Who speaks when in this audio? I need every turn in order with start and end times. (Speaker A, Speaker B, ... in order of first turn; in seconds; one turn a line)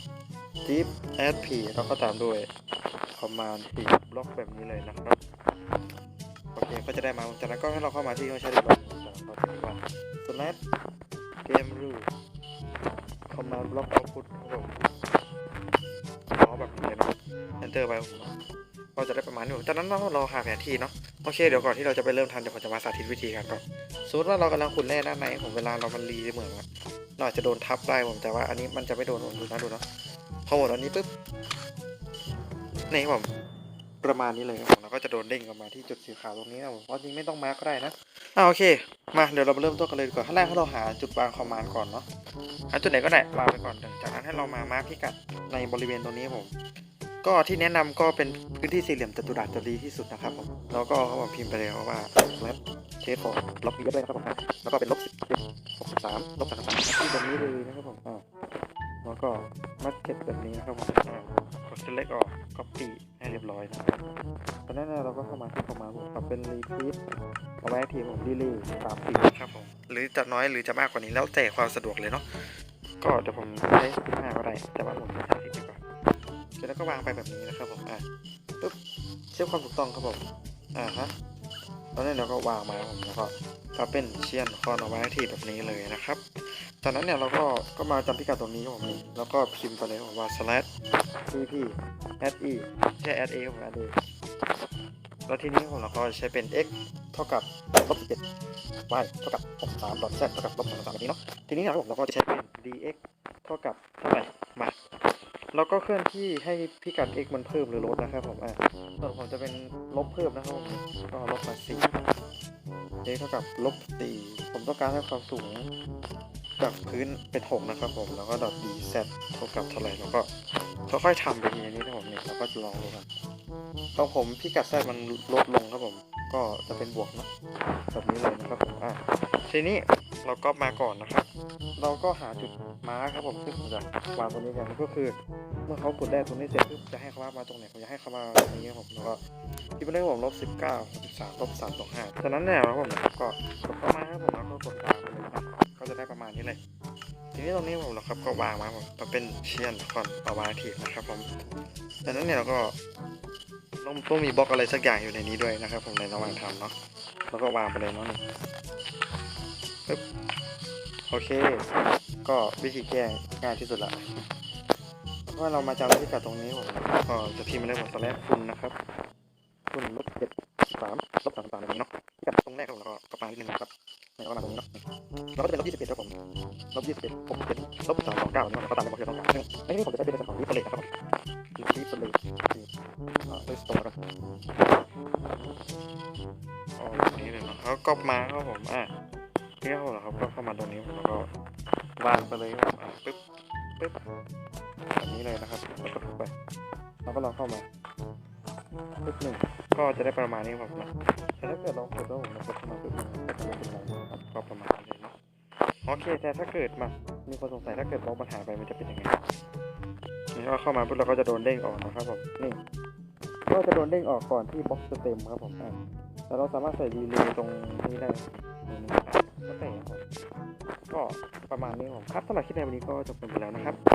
Speaker A: 0.7-2.5
Speaker A: 3.1-5.2
Speaker A: 6.5-10.6
Speaker A: 11.4-12.1
Speaker A: 13.3-14.8
Speaker A: 16.3-18.3
Speaker A: 18.9-26.6
Speaker A: 27.2-29.8
Speaker A: 30.5-31.1
Speaker A: 32.9-33.3
Speaker A: 34.0-42.0
Speaker A: 42.7-46.5
Speaker A: 47.2-58.2
Speaker A: 59.0-64.2
Speaker A: 64.7-67.0
Speaker A: 67.6-72.5
Speaker A: 73.0-75.8
Speaker A: 76.6-78.0
Speaker A: 79.3-80.2
Speaker A: 80.8-81.1
Speaker A: 82.0-90.7
Speaker A: 91.3-93.9
Speaker A: 95.3-98.2
Speaker A: 98.9-104.7
Speaker A: 105.5-112.0
Speaker A: 113.0-115.7
Speaker A: 116.6-120.3
Speaker A: 120.9-123.1
Speaker A: 124.0-127.3
Speaker A: 127.9-139.2
Speaker A: 139.8-146.6
Speaker A: 147.3-151.4
Speaker A: 152.1-152.8
Speaker A: 153.8-156.7
Speaker A: 157.3-158.2
Speaker A: 161.1-161.7
Speaker A: 162.2-164.0
Speaker A: 165.3-168.8
Speaker A: 169.7-174.8
Speaker A: 175.3-176.1
Speaker A: 176.7-180.9
Speaker A: 181.6-182.7
Speaker A: 183.3-184.0
Speaker A: 186.8-188.9
Speaker A: 189.6-191.3
Speaker A: 192.0-193.2
Speaker A: 194.9-196.3
Speaker A: 197.1-197.7
Speaker A: 199.0-205.1
Speaker A: 205.8-209.2
Speaker A: 210.3-212.6
Speaker A: 213.5-215.8
Speaker A: 216.3-220.0
Speaker A: 220.9-223.8